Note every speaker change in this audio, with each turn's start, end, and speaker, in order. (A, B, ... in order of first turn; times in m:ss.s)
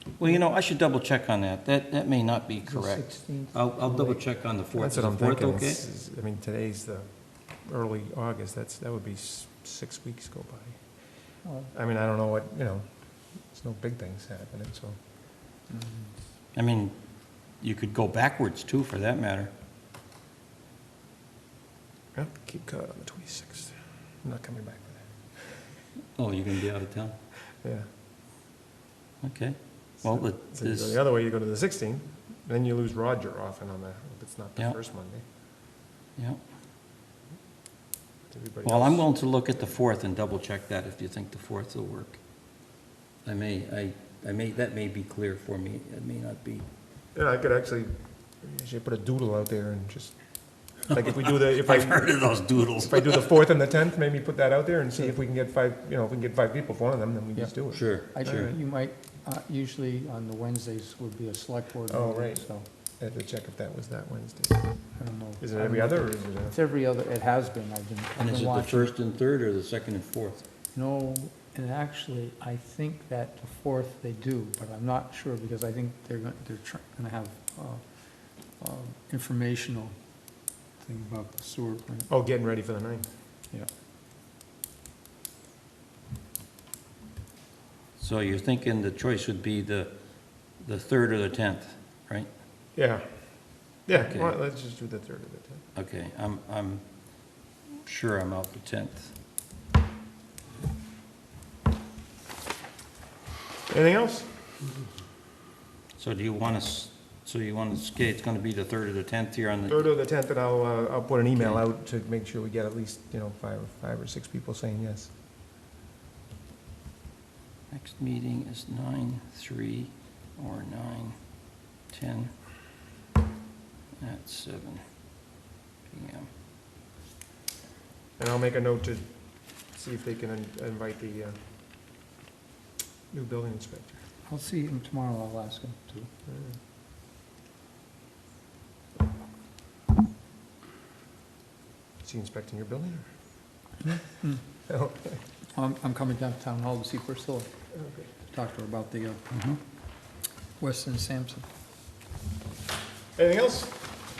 0:00.2-0:05.8 A
0:02.6-0:04.3 B
0:04.8-0:11.0 C
0:11.4-0:11.7 B
0:11.7-0:15.0 C
0:15.7-0:16.2 B
0:16.5-0:19.5 A
0:22.1-0:25.4 C
0:26.2-0:27.2 A
0:27.6-0:27.9 C
0:29.2-0:31.0 A
0:30.0-0:35.2 C
0:36.2-0:36.4 A
0:38.3-0:39.1 C
0:38.6-0:42.2 A
0:43.2-0:46.6 A
0:47.1-0:58.5 C
0:51.4-0:53.2 A
0:57.3-1:02.6 B
0:57.7-0:58.5 A
1:01.9-1:04.8 C
1:05.0-1:08.9 B
1:05.4-1:06.6 C
1:08.2-1:10.4 A
1:10.7-1:22.1 B
1:22.1-1:23.1 C
1:28.0-1:32.3 A
1:32.8-1:35.6 C
1:33.9-1:34.3 A
1:35.8-1:39.1 A
1:43.7-1:44.3 C
1:46.0-1:49.9 A
1:49.7-1:55.1 C
1:57.7-2:01.2 A
2:01.9-2:02.3 A
2:04.0-2:05.3 A
2:05.9-2:06.3 A
2:08.2-2:11.4 C
2:13.1-2:14.0 C
2:14.2-2:16.1 B
2:16.3-2:16.6 C
2:22.0-2:23.0 C
2:23.9-2:24.4 B
2:24.7-2:25.2 C
2:25.6-2:27.5 B
2:27.7-2:28.1 C
2:28.3-2:29.2 B
2:29.3-2:29.6 A
2:30.6-2:31.5 B
2:33.2-2:33.9 C